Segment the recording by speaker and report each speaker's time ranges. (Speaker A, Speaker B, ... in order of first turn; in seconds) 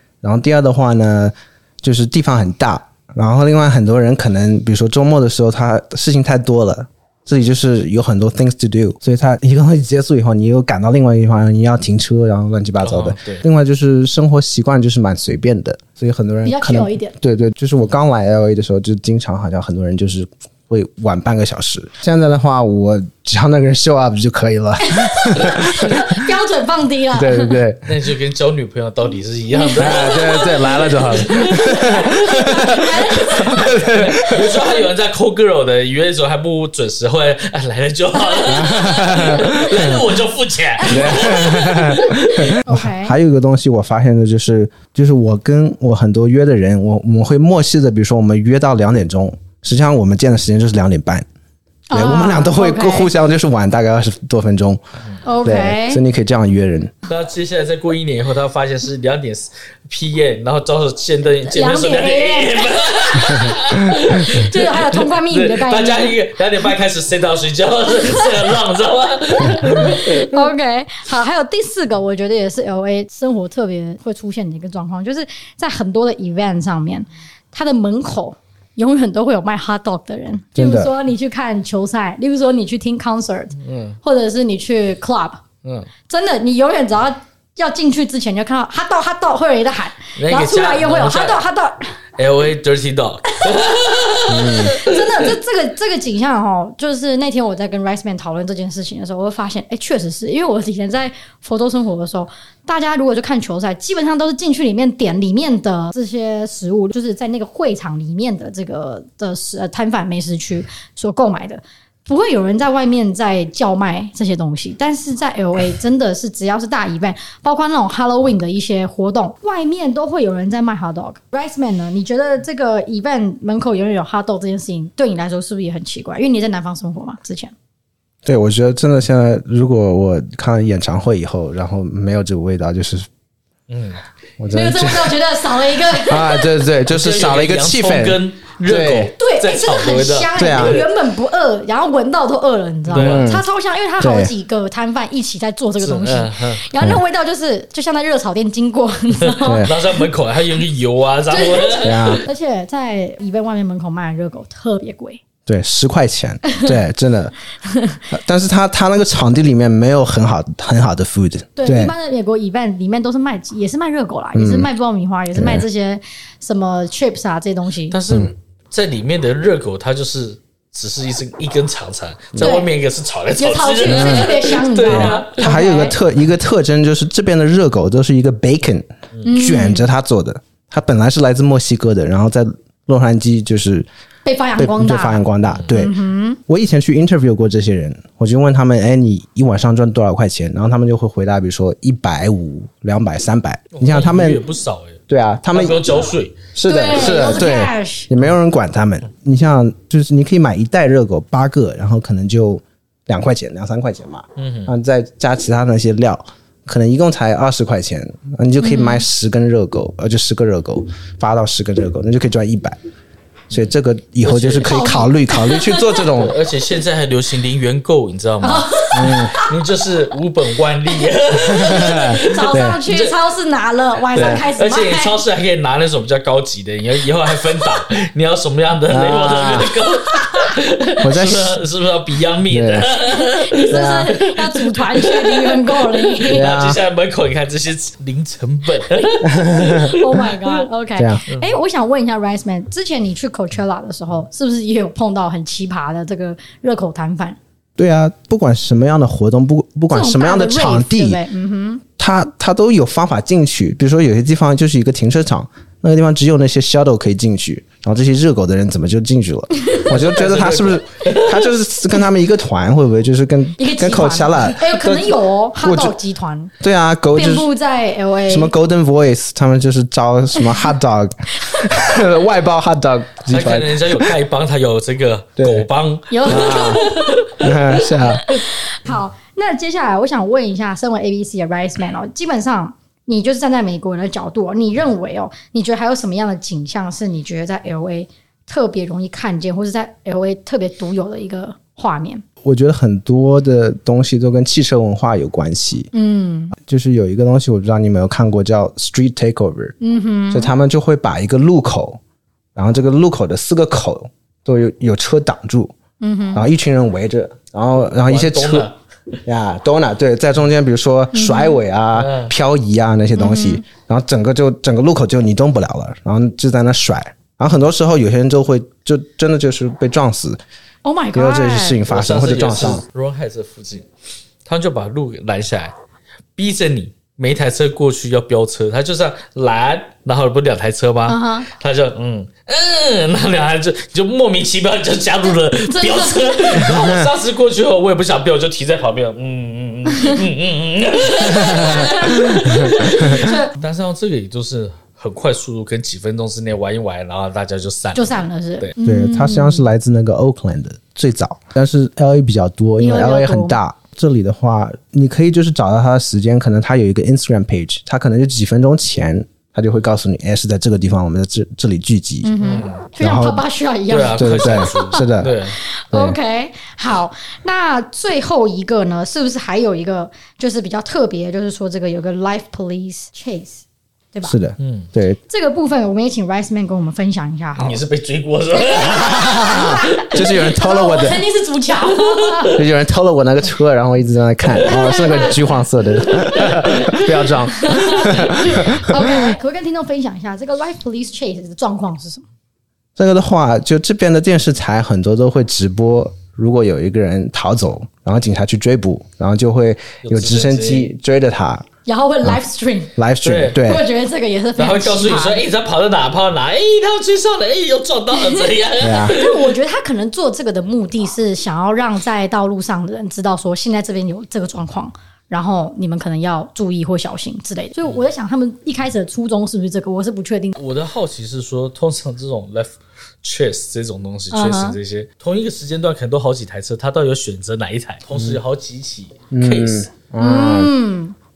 Speaker A: 0.2-26.0, 27.1-27.9, 29.8-34.5, 38.5-40.0, 40.9-51.2, 51.9-54.8, 55.4-56.9, 80.5-80.9, 94.3-94.8, 128.2-133.1, 134.4-135.2, 136.0-139.1, 140.3-140.8, 142.9-143.4, 144.0-144.3, 149.4-149.7, 151.8-152.2, 155.4-157.3, 158.1-161.9, 164.3-164.7, 165.3-165.6, 173.9-174.3, 174.8-183.9, 184.6-185.9, 186.5-194.4, 195.1-212.8, 213.5-216.3, 218.9-219.3, 221.5-222.8, 224.1-224.4, 228.9-229.7, 231.0-231.6, 232.5-232.8, 233.7-234.1, 236.3-236.8, 239.2-239.9, 241.0-241.2, 247.8-251.2, 252.0-265.9, 266.6-267.5, 268.3-274.1, 275.4-275.7, 276.2-276.8, 277.4-278.2, 292.4-295.9, 296.6-299.7, 300.3-302.0, 302.6-305.7, 306.3-308.7, 309.2-320.4, 321.1-322.8, 336.8-337.0, 341.4-343.3, 348.8-363.4, 364.1-365.4, 365.9-366.2, 374.2-375.2, 379.1-381.2, 382.5-389.2, 393.0-401.6, 402.9-403.8, 408.8-409.2, 428.1-428.4, 429.3-430.7
Speaker B: 12.8-13.4, 27.9-32.4, 33.0-42.5, 57.1-70.5, 83.6-84.0, 85.6-85.9, 90.2-91.4, 92.2-95.3, 133.7-134.0, 136.9-140.9, 142.9-143.3, 145.8-146.6, 149.2-152.2, 167.9-175.4, 185.4-185.7, 193.7-197.2, 204.4-204.7, 213.5-215.0, 216.1-218.9, 219.4-223.1, 224.1-240.4, 241.3-241.5, 259.9-261.6, 273.3-278.9, 308.1-309.2, 311.9-312.3, 321.9-323.9, 324.4-325.7, 326.4-348.7, 362.4-362.8, 363.9-365.6, 374.6-374.9, 377.6-380.0, 381.9-382.5, 386.2-387.3, 400.0-400.9, 403.2-403.6, 404.6-409.5, 420.6-429.9
Speaker C: 16.4-17.1, 24.8-27.6, 29.5-33.7, 34.3-34.7, 38.1-40.0, 40.8-43.1, 51.9-53.1, 55.2-56.0, 61.4-66.2, 67.9-68.3, 69.5-85.4, 86.1-91.9, 93.3-93.8, 94.4-127.5, 134.5-136.5, 139.2-150.0, 151.3-155.2, 156.5-156.7, 157.7-158.0, 161.6-168.0, 172.4-172.7, 173.3-176.0, 179.2-179.9, 184.2-186.4, 196.6-198.1, 208.6-209.0, 214.6-216.1, 218.4-219.5, 220.9-225.2, 229.8-230.5, 233.0-236.5, 239.5-247.4, 249.9-251.8, 263.6-266.5, 267.1-268.5, 271.4-272.0, 276.1-277.2, 278.0-292.2, 295.9-296.5, 299.8-300.5, 306.0-306.5, 311.1-311.6, 313.1-313.6, 320.8-321.8, 331.1-331.5, 335.6-337.0, 341.2-343.6, 347.9-349.7, 352.8-353.6, 362.2-374.4, 375.3-377.8, 378.5-382.6, 384.6-385.6, 386.3-392.2, 401.9-402.9, 403.6-405.4, 408.1-420.6, 424.3-424.8, 430.2-431.1